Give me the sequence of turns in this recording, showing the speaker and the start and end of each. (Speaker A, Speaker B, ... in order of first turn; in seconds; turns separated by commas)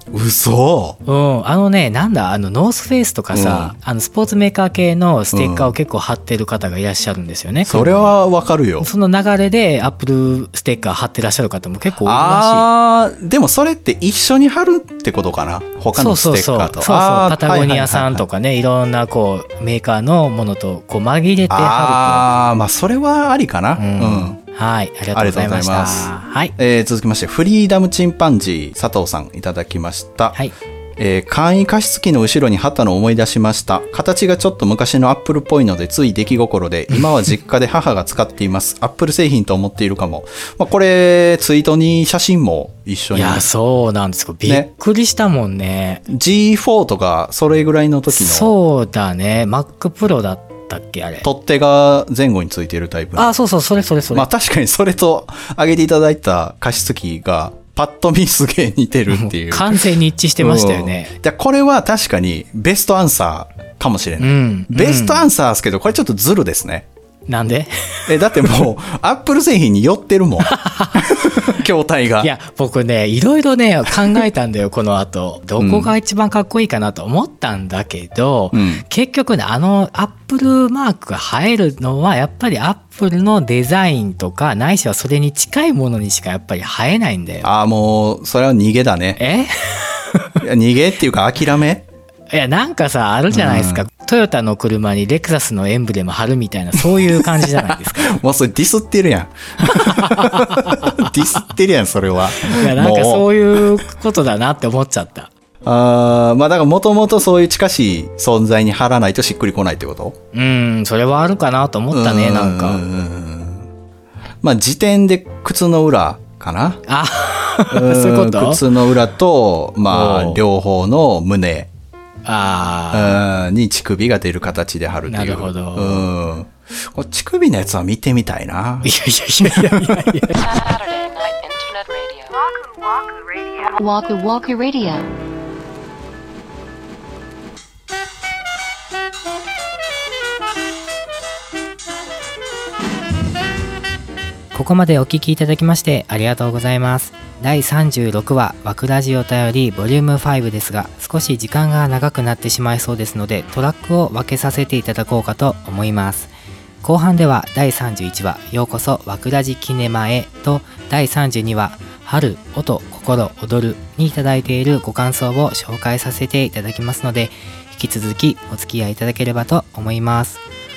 Speaker A: 0.1-1.0, Speaker B: 1.1-8.1, Speaker A: 3.3-3.7, Speaker A: 5.3-5.8, Speaker A: 7.7-8.9, Speaker B: 8.8-12.7, Speaker A: 12.0-18.2, Speaker B: 15.9-22.3, Speaker A: 21.5-24.4, Speaker B: 23.8-26.5, Speaker A: 25.1-30.4, Speaker A: 31.0-43.4, Speaker B: 43.1-46.0, Speaker A: 46.1-48.5, Speaker B: 48.1-51.2, Speaker A: 51.2-53.3, Speaker B: 53.1-54.3, Speaker A: 54.1-59.8, Speaker B: 59.1-61.1, Speaker A: 60.4-66.9, Speaker B: 64.2-65.3, Speaker B: 67.3-68.1, Speaker A: 68.1-72.3, Speaker B: 70.5-71.5, Speaker B: 72.2-87.5, Speaker A: 75.6-75.9, Speaker A: 78.5-78.8, Speaker A: 87.4-89.2, Speaker B: 89.2-90.4, Speaker A: 90.4-91.9, Speaker B: 92.3-98.2, Speaker A: 93.3-93.8, Speaker A: 96.9-97.5, Speaker A: 98.0-103.3, Speaker B: 99.6-101.1, Speaker B: 102.5-105.3, Speaker A: 105.6-110.1, Speaker B: 110.3-112.8, Speaker A: 111.9-113.7, Speaker A: 114.4-116.8, Speaker B: 116.9-118.6, Speaker A: 117.7-121.7, Speaker B: 119.9-120.4, Speaker B: 122.2-123.2, Speaker A: 122.9-128.9, Speaker B: 125.0-126.1, Speaker B: 128.8-130.4, Speaker C: 130.3-135.1, Speaker B: 144.5-156.3, Speaker B: 156.8-170.4